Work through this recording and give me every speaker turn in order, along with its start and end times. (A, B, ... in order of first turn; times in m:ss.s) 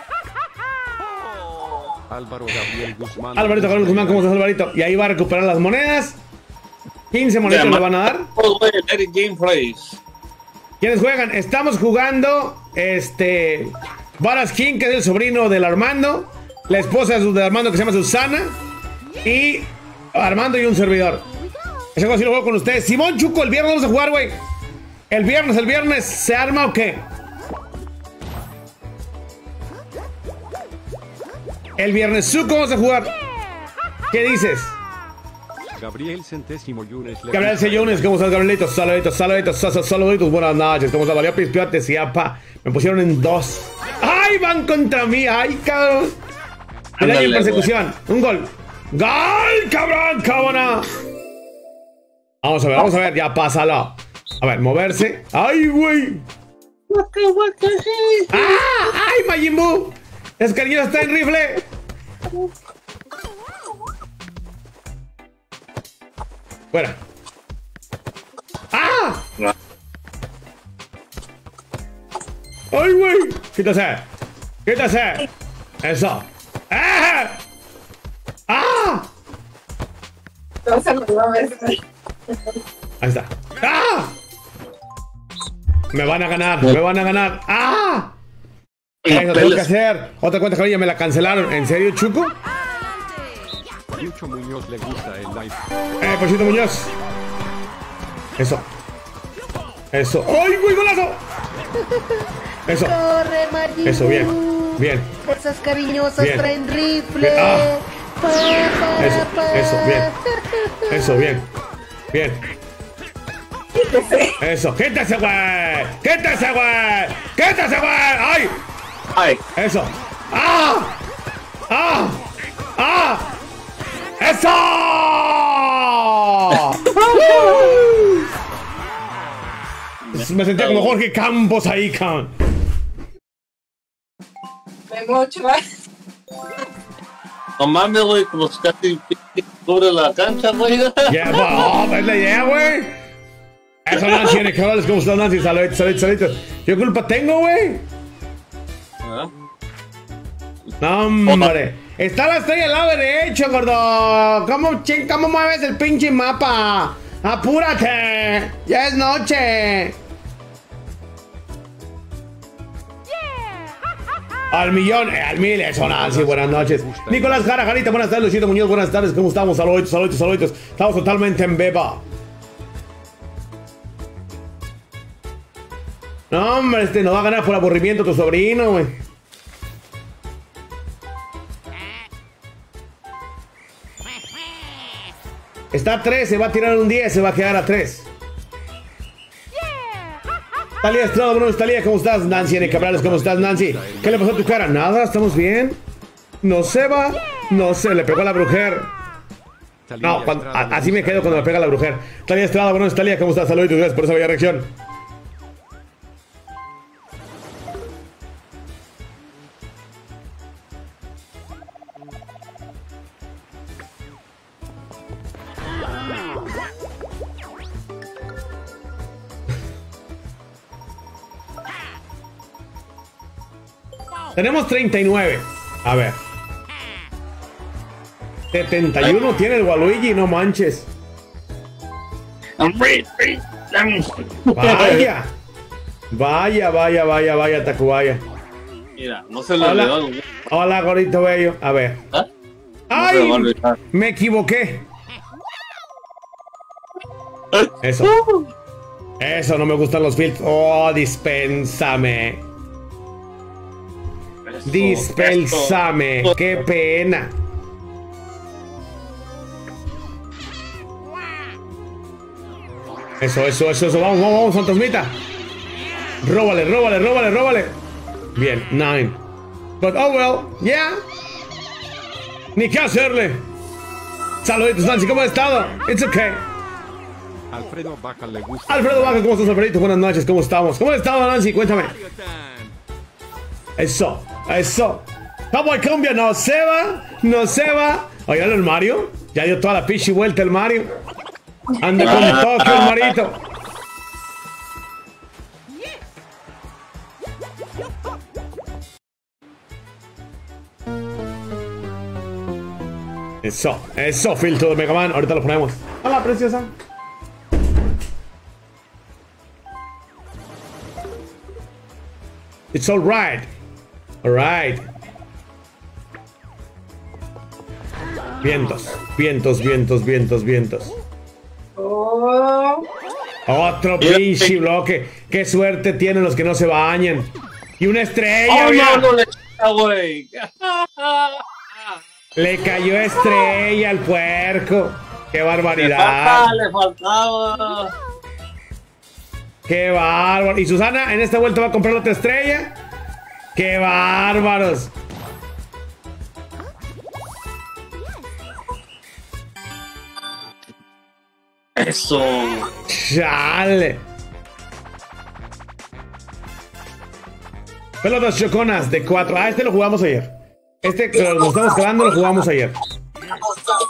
0:02.1-0:04.3 A
0:03.4-0:06.2 B
0:07.1-0:08.3 B
0:07.5-0:10.0 C
0:10.8-0:18.6 B
0:19.2-0:21.3 B
0:22.0-0:24.4 B
0:25.1-0:27.1 B
0:31.8-0:33.1 B
0:34.1-0:34.8 B
0:35.7-0:38.1 A
0:37.3-0:46.2 B
0:47.0-0:47.7 C
0:47.0-0:50.9 B
0:52.4-0:56.3 B
0:56.9-0:58.3 C
0:58.3-1:01.7 B
1:06.7-1:07.0 B
1:08.7-1:09.3 B
1:12.7-1:14.1 B
1:14.6-1:15.3 B
1:15.8-1:17.4 B
1:18.5-1:19.1 B
1:20.6-1:21.8 D
1:23.0-1:24.2 B
1:25.9-1:28.2 B
1:29.0-1:29.7 C
1:29.1-1:32.4 B
1:33.9-1:35.7 A
1:36.0-1:36.9 B
1:38.4-1:38.7 B
1:39.9-1:41.2 B
1:42.7-1:43.0 B
1:42.7-1:51.0 E
1:43.8-1:45.2 B
1:46.2-1:46.5 B
1:47.2-1:47.7 B
1:49.0-1:50.1 B
1:50.9-1:51.5 B
1:52.1-1:52.4 B
1:53.9-1:54.2 D
1:54.4-1:58.6 B
1:59.2-1:59.4 C
1:59.6-2:01.0 B
2:01.7-2:02.2 B
2:02.8-2:03.3 B
2:04.2-2:08.2 B
2:06.8-2:07.8 C
2:10.0-2:11.0 C
2:10.2-2:12.3 B
2:14.9-2:15.6 D
2:17.6-2:21.3 C
2:21.1-2:23.0 B
2:23.8-2:27.9 B
2:29.0-2:29.3 C
2:30.8-2:40.0 B
2:31.3-2:31.5 C
2:44.5-2:52.0 B
2:45.8-2:47.6 A
2:56.3-2:59.0 B
3:05.7-3:08.1 B
3:10.8-3:15.8 B
3:12.2-3:14.5 A
3:16.4-3:18.9 B
3:19.9-3:21.6 A
3:20.0-3:24.7 B
3:44.4-3:46.2 B
3:48.5-3:50.9 B
3:52.6-3:55.1 C
3:54.6-3:55.4 B
3:56.1-3:58.2 B
3:59.0-4:00.2 C
3:59.6-4:02.0 B
4:02.9-4:04.9 B
4:02.9-4:03.8 C
4:07.5-4:08.5 C
4:07.8-4:08.1 B
4:09.2-4:12.4 B
4:14.5-4:16.3 C
4:14.7-4:17.3 B
4:23.2-4:25.2 B
4:26.2-4:27.8 B
4:28.4-4:29.2 B
4:29.8-4:31.0 B
4:32.6-4:33.5 B
4:34.4-4:36.5 B
4:37.5-4:39.4 A
4:38.7-4:42.0 B
4:43.8-4:50.9 B
4:51.8-4:53.4 B
4:52.0-4:53.2 C
5:03.4-5:06.7 B
5:12.7-5:13.5 B
5:14.2-5:14.9 B
5:18.4-5:20.9 B
5:21.8-5:22.9 D
5:23.5-5:29.1 B
5:24.0-5:24.5 C
5:28.5-5:31.4 C
5:32.4-5:36.5 B
5:35.8-5:37.9 C
5:39.7-5:42.8 B
5:43.6-5:44.9 B
5:51.8-5:52.7 C
5:52.9-5:54.0 B
5:58.0-6:02.8 B